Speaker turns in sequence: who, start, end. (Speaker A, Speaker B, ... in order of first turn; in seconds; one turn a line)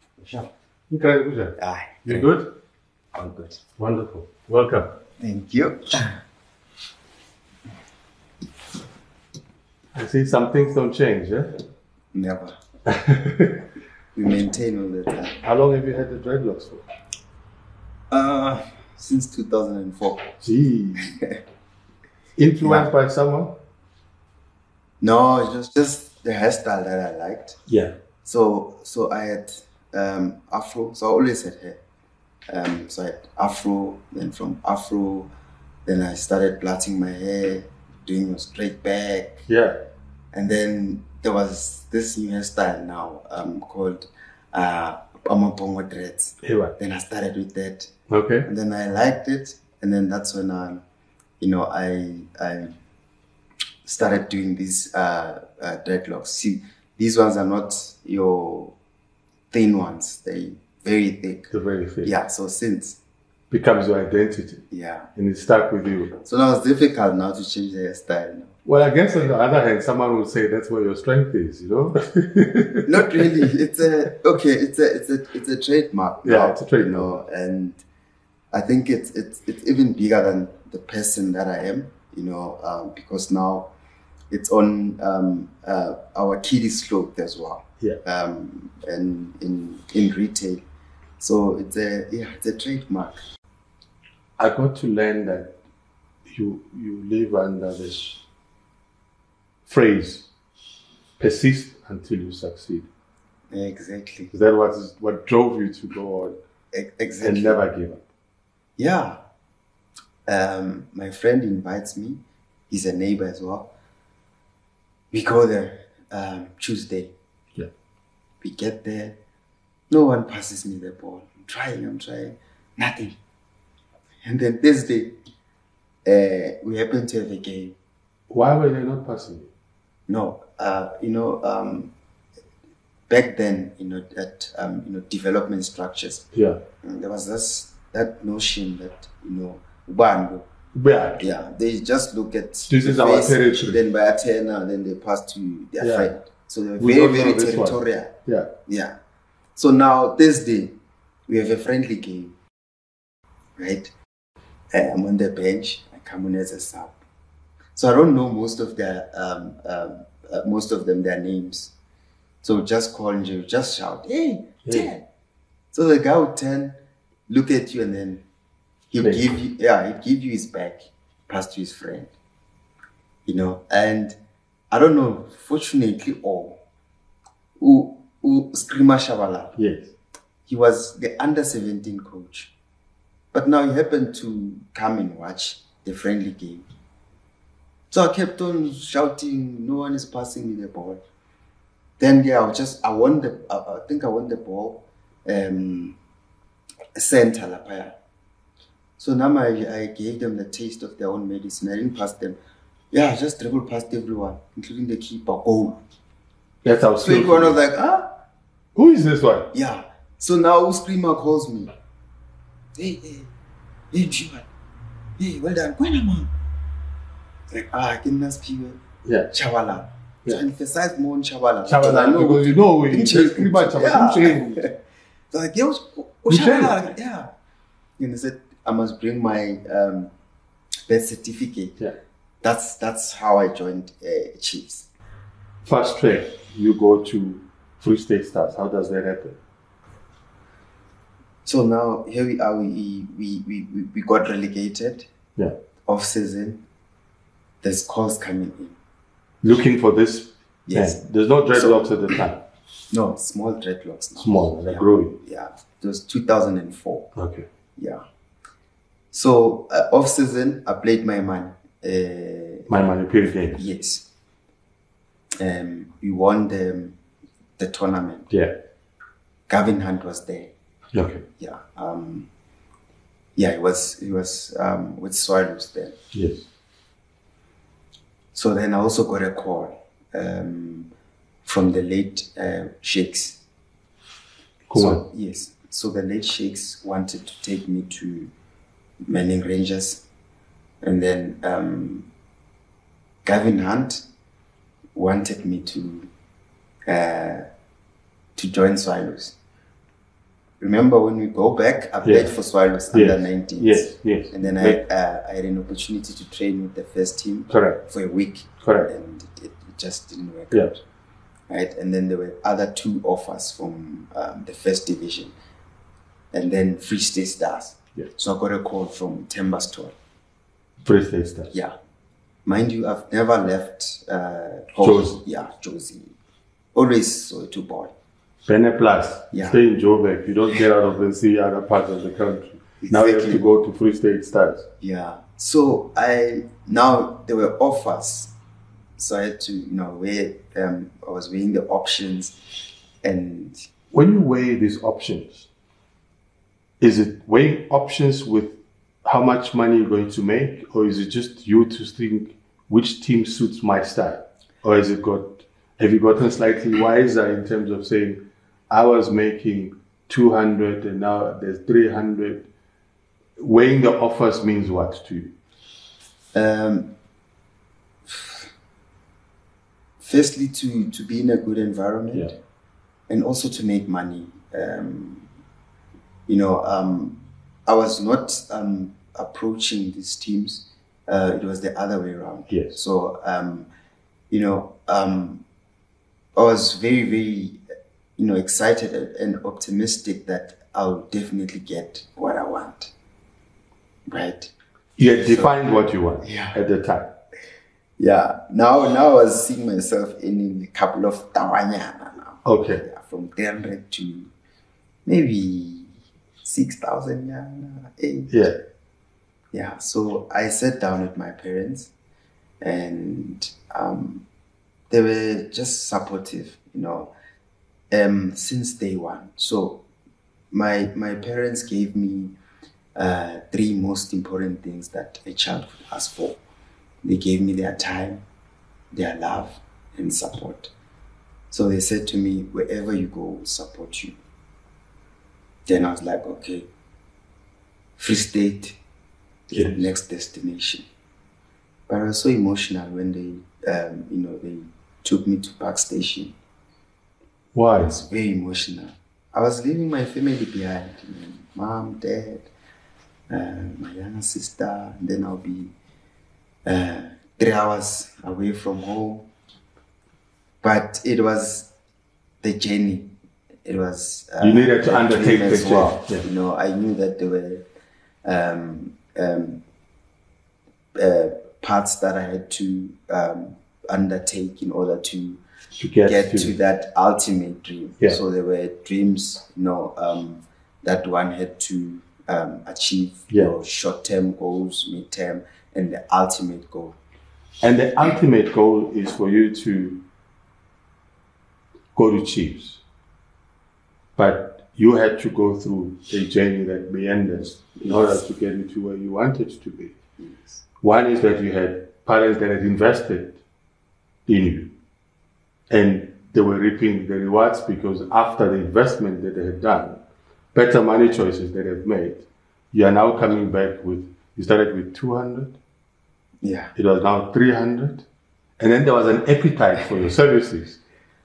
Speaker A: 0.9-2.6
Speaker B: 1.6-2.3
Speaker B: 3.1-3.6
Speaker A: 3.8-5.0
Speaker B: 5.2-6.2
Speaker A: 9.9-11.6
Speaker B: 12.1-12.6
Speaker A: 12.8-13.7
Speaker B: 14.1-15.4
Speaker A: 15.4-16.8
Speaker B: 18.1-20.3
Speaker A: 20.4-21.1
Speaker B: 21.0-21.4
Speaker A: 22.4-23.6
Speaker B: 22.6-22.9
Speaker B: 25.0-27.6
Speaker A: 27.7-27.9
Speaker B: 28.2-31.8
Speaker B: 32.5-35.3
Speaker B: 35.9-39.4
Speaker A: 39.5-39.8
Speaker B: 40.3-47.9
Speaker A: 46.4-46.7
Speaker A: 48.1-48.5
Speaker B: 48.5-50.8
Speaker B: 51.4-52.7
Speaker B: 53.8-58.7
Speaker B: 59.5-61.5
Speaker A: 61.5-62.1
Speaker B: 62.0-63.0
Speaker A: 63.5-66.2
Speaker B: 64.7-65.1
Speaker B: 66.2-68.5
Speaker A: 68.6-73.5
Speaker B: 72.9-77.8
Speaker A: 76.2-77.1
Speaker B: 78.5-83.7
Speaker B: 84.3-90.6
Speaker B: 91.2-93.2
Speaker A: 94.4-95.6
Speaker A: 96.3-98.2
Speaker A: 99.7-100.3
Speaker A: 101.2-102.9
Speaker B: 103.5-104.3
Speaker A: 104.3-106.4
Speaker B: 106.7-107.6
Speaker A: 107.2-108.0
Speaker B: 108.8-109.2
Speaker B: 110.3-113.7
Speaker B: 115.1-117.1
Speaker B: 118.4-119.2
Speaker B: 119.9-123.2
Speaker B: 124.2-125.2
Speaker B: 126.0-127.8
Speaker A: 128.3-129.5
Speaker B: 130.1-131.9
Speaker B: 133.1-136.3
Speaker A: 136.3-136.6
Speaker B: 136.8-140.4
Speaker A: 140.7-141.2
Speaker B: 141.2-148.1
Speaker A: 142.7-143.8
Speaker A: 145.8-146.1
Speaker A: 146.8-148.5
Speaker B: 148.7-149.0
Speaker B: 149.6-150.8
Speaker B: 151.3-152.3
Speaker B: 153.6-153.9
Speaker B: 154.7-157.0
Speaker B: 157.7-161.7
Speaker B: 162.4-165.0
Speaker A: 164.6-164.9
Speaker B: 165.7-168.2
Speaker B: 168.9-172.1
Speaker A: 169.0-169.4
Speaker B: 173.2-174.2
Speaker B: 174.7-176.6
Speaker B: 177.6-179.5
Speaker A: 179.6-179.9
Speaker B: 180.5-182.5
Speaker B: 183.3-186.7
Speaker B: 187.9-191.0
Speaker B: 192.0-195.9
Speaker B: 196.9-197.9
Speaker B: 199.0-202.4
Speaker B: 202.9-205.8
Speaker A: 206.6-207.6
Speaker B: 207.0-208.2
Speaker A: 208.8-209.5
Speaker B: 209.5-211.7
Speaker B: 212.7-213.3
Speaker B: 213.9-214.5
Speaker B: 215.2-216.3
Speaker B: 217.5-224.7
Speaker A: 219.1-219.3
Speaker A: 221.7-224.7
Speaker B: 225.3-227.3
Speaker A: 226.3-226.7
Speaker B: 228.0-230.1
Speaker B: 230.9-231.8
Speaker B: 232.4-234.9
Speaker A: 235.6-239.4
Speaker B: 241.4-245.1
Speaker B: 245.8-246.6
Speaker B: 247.6-248.8
Speaker A: 249.4-252.4
Speaker B: 250.7-251.0
Speaker B: 251.5-251.9
Speaker B: 252.9-257.1
Speaker A: 254.2-255.2
Speaker A: 257.1-257.4
Speaker B: 257.8-258.0
Speaker B: 259.1-262.7
Speaker A: 262.7-263.6
Speaker B: 263.5-264.1
Speaker B: 265.4-267.0
Speaker B: 267.6-268.3
Speaker B: 269.5-270.5
Speaker A: 270.9-271.2
Speaker B: 271.4-272.3
Speaker B: 273.4-275.9
Speaker A: 276.1-276.4
Speaker B: 278.3-280.9
Speaker B: 281.4-283.4
Speaker A: 284.7-285.0
Speaker B: 284.7-288.3
Speaker B: 289.1-290.0
Speaker B: 290.8-292.1
Speaker B: 293.2-294.0
Speaker B: 294.9-296.1
Speaker B: 296.9-297.4
Speaker B: 298.4-299.4
Speaker B: 300.6-310.8
Speaker A: 302.0-302.3
Speaker A: 302.9-304.8
Speaker A: 307.5-307.8
Speaker A: 308.6-308.9
Speaker B: 311.5-315.3
Speaker B: 316.3-319.9
Speaker A: 320.8-321.5
Speaker B: 322.4-326.1
Speaker A: 324.8-325.2
Speaker B: 326.7-327.9
Speaker A: 328.5-334.7
Speaker B: 329.3-329.6
Speaker B: 332.8-333.5
Speaker B: 334.8-338.3
Speaker B: 339.0-342.4
Speaker B: 343.0-343.6
Speaker A: 343.9-345.5
Speaker A: 346.8-362.5
Speaker A: 363.4-365.3
Speaker B: 366.3-366.9
Speaker B: 368.1-368.5
Speaker B: 370.0-372.3
Speaker B: 373.1-375.2
Speaker B: 376.3-383.7
Speaker A: 382.5-382.8
Speaker B: 384.3-385.4
Speaker B: 386.4-387.6
Speaker B: 388.2-392.9
Speaker B: 394.1-394.5
Speaker A: 395.0-397.2
Speaker B: 395.2-395.5
Speaker B: 396.2-396.6
Speaker B: 398.0-404.3
Speaker A: 402.4-402.8
Speaker B: 405.1-405.9
Speaker B: 406.4-408.5
Speaker A: 408.3-408.6
Speaker B: 409.5-411.9
Speaker B: 412.6-414.2
Speaker B: 414.9-417.1
Speaker B: 417.9-419.8
Speaker B: 420.5-422.3
Speaker B: 422.9-426.4
Speaker B: 427.0-428.2
Speaker B: 428.9-430.7
Speaker B: 431.5-434.1
Speaker B: 435.7-436.7
Speaker B: 438.0-438.8
Speaker B: 439.5-440.8
Speaker A: 439.5-439.9
Speaker B: 441.9-446.3
Speaker A: 447.5-448.0
Speaker B: 447.8-452.5
Speaker B: 453.3-455.7
Speaker B: 456.6-459.3
Speaker B: 460.6-461.7
Speaker B: 462.4-463.1
Speaker B: 463.6-467.6
Speaker A: 464.4-466.2
Speaker B: 468.2-469.6
Speaker B: 470.9-475.4
Speaker A: 475.8-476.5
Speaker B: 476.0-487.0
Speaker A: 487.6-490.0
Speaker A: 491.9-492.8
Speaker A: 494.1-499.9
Speaker B: 497.8-498.1
Speaker B: 500.2-500.5
Speaker A: 500.8-503.4
Speaker A: 504.3-504.7
Speaker A: 505.7-510.0
Speaker A: 510.5-515.6
Speaker B: 516.4-516.7
Speaker A: 516.7-518.0
Speaker A: 518.6-520.8